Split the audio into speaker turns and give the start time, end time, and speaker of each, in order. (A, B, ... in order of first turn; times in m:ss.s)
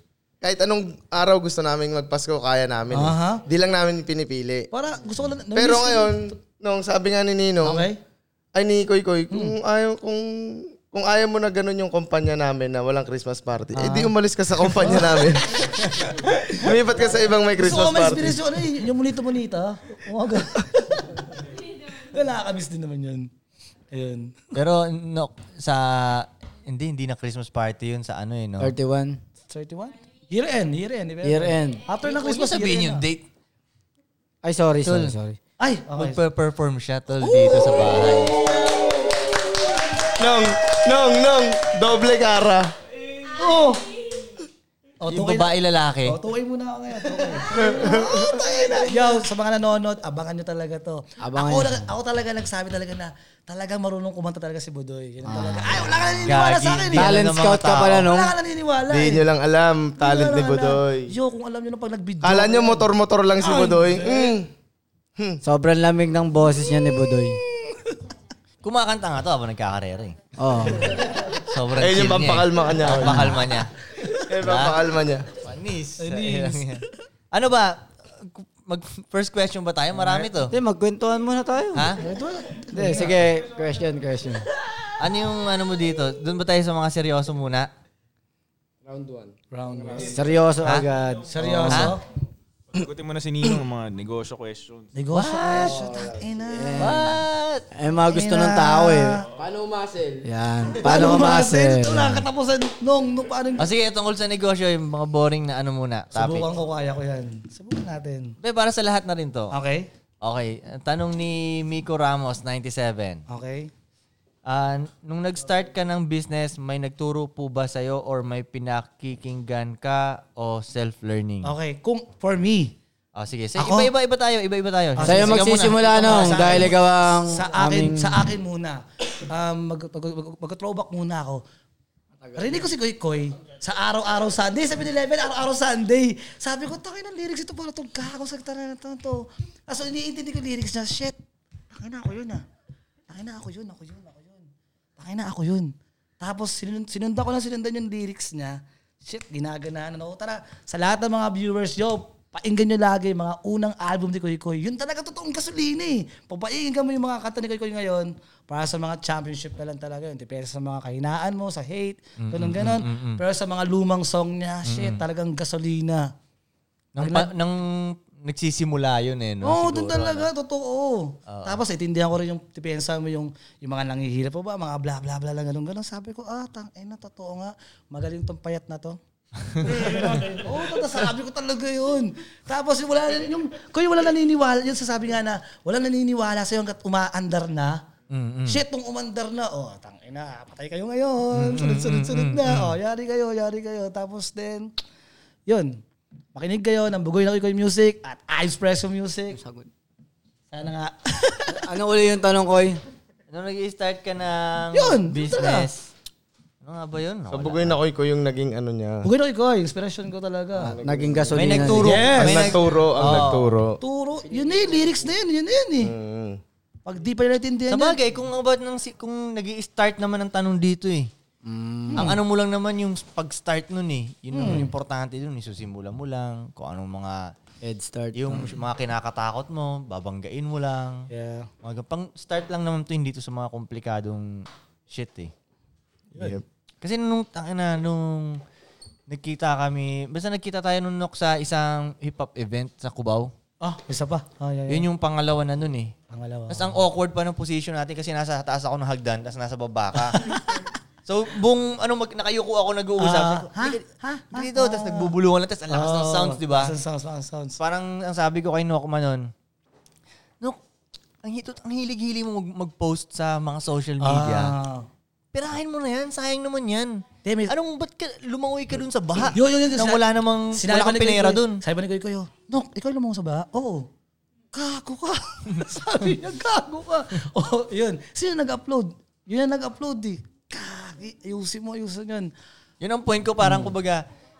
0:00.4-0:04.7 A
0:02.9-0:03.4 B
0:04.7-0:06.4 B
0:05.6-0:07.9 A
0:07.6-0:08.0 B
0:08.6-0:18.4 A
0:13.8-0:14.1 B
0:14.7-0:15.6 B
0:16.4-0:16.7 B
0:17.5-0:23.3 B
0:23.9-0:24.4 B
0:24.5-0:28.8 C
0:28.6-0:29.2 D
0:29.5-0:33.0 B
0:31.2-0:31.8 D
0:32.0-0:33.3 C
0:34.4-0:35.4 D
0:34.8-0:35.2 C
0:35.6-0:36.2 B
0:36.0-0:38.4 C
0:37.3-0:38.0 B
0:40.2-0:42.7 A
0:43.4-0:43.8 B
0:45.0-0:45.5 B
0:45.1-0:46.2 C
0:46.0-0:57.3 B
0:47.5-0:48.4 A
0:51.2-0:51.9 D
0:55.2-0:56.1 D
0:56.2-0:58.1 C
0:56.9-0:58.4 D
0:58.0-0:59.2 B
0:58.9-1:01.1 A
1:00.0-1:04.4 B
1:02.2-1:04.5 A
1:05.4-1:07.4 D
1:08.6-1:10.2 C
1:10.4-1:11.0 D
1:11.2-1:13.7 C
1:11.8-1:13.4 A
1:13.1-1:13.5 B
1:14.2-1:15.3 A
1:14.4-1:14.8 C
1:15.4-1:20.6 C
1:16.0-1:16.9 B
1:20.4-1:22.0 D
1:21.8-1:22.0 C
1:22.0-1:23.2 B
1:22.7-1:24.5 D
1:25.0-1:27.7 C
1:28.8-1:30.2 E
1:29.5-1:30.2 B
1:30.0-1:31.9 D
1:31.3-1:32.0 B
1:31.7-1:32.0 C
1:32.7-1:34.9 F
1:35.0-1:37.2 B
1:35.2-1:35.8 C
1:35.5-1:36.8 E
1:36.6-1:37.2 D
1:36.8-1:37.7 C
1:37.7-1:39.2 D
1:38.1-1:39.2 B
1:39.3-1:40.3 E
1:40.2-1:42.3 D
1:40.8-1:43.7 B
1:43.6-1:46.5 C
1:46.1-1:48.3 B
1:48.4-1:49.6 C
1:49.5-1:49.9 B
1:50.2-1:53.2 C
1:53.3-1:53.7 B
1:54.5-2:01.5 C
2:01.4-2:02.8 B
2:03.2-2:06.8 C
2:03.6-2:03.9 B
2:05.0-2:11.4 B
2:05.0-2:08.3 D
2:12.3-2:21.2 B
2:21.7-2:22.4 B
2:23.1-2:24.5 B
2:25.0-2:46.1 B
2:42.2-2:43.2 C
2:44.7-2:45.0 C
2:47.0-2:50.3 C
2:47.0-2:47.3 B
2:49.4-3:07.8 B
2:51.3-2:51.6 C
2:59.6-3:00.0 C
3:08.1-3:08.6 C
3:08.5-3:14.7 B
3:11.3-3:12.7 C
3:15.5-3:15.8 B
3:16.4-3:19.4 B
3:19.3-3:19.7 D
3:20.5-3:21.6 B
3:21.5-3:22.8 D
3:23.3-3:25.9 C
3:24.7-3:25.7 B
3:26.6-3:27.8 C
3:27.3-3:29.1 A
3:29.0-3:30.8 B
3:30.6-3:32.1 D
3:30.8-3:31.2 E
3:31.3-3:33.6 C
3:31.8-3:32.6 B
3:32.1-3:33.8 A
3:33.8-3:35.9 B
3:35.8-3:36.4 A
3:36.8-3:38.0 B
3:37.7-3:41.1 C
3:41.4-3:42.2 D
3:41.9-3:42.2 B
3:42.0-3:47.3 C
3:44.3-3:44.7 B
3:47.6-3:48.5 D
3:48.1-3:51.1 C
3:51.1-3:51.5 B
3:51.6-3:55.3 C
3:56.2-3:56.4 A
3:56.8-3:58.4 C
3:59.1-4:03.3 C
4:03.6-4:04.9 B
4:04.7-4:05.9 C
4:06.1-4:06.7 B
4:06.5-4:10.4 C
4:10.0-4:10.6 B
4:11.0-4:16.7 C
4:13.0-4:15.1 B
4:15.7-4:17.6 B
4:17.6-4:19.3 C
4:21.2-4:24.6 C
4:24.0-4:24.9 B
4:25.3-4:31.6 C
4:27.2-4:27.5 B
4:29.2-4:33.9 B
4:34.5-4:42.3 B
4:42.8-4:44.0 C
4:43.4-4:43.7 B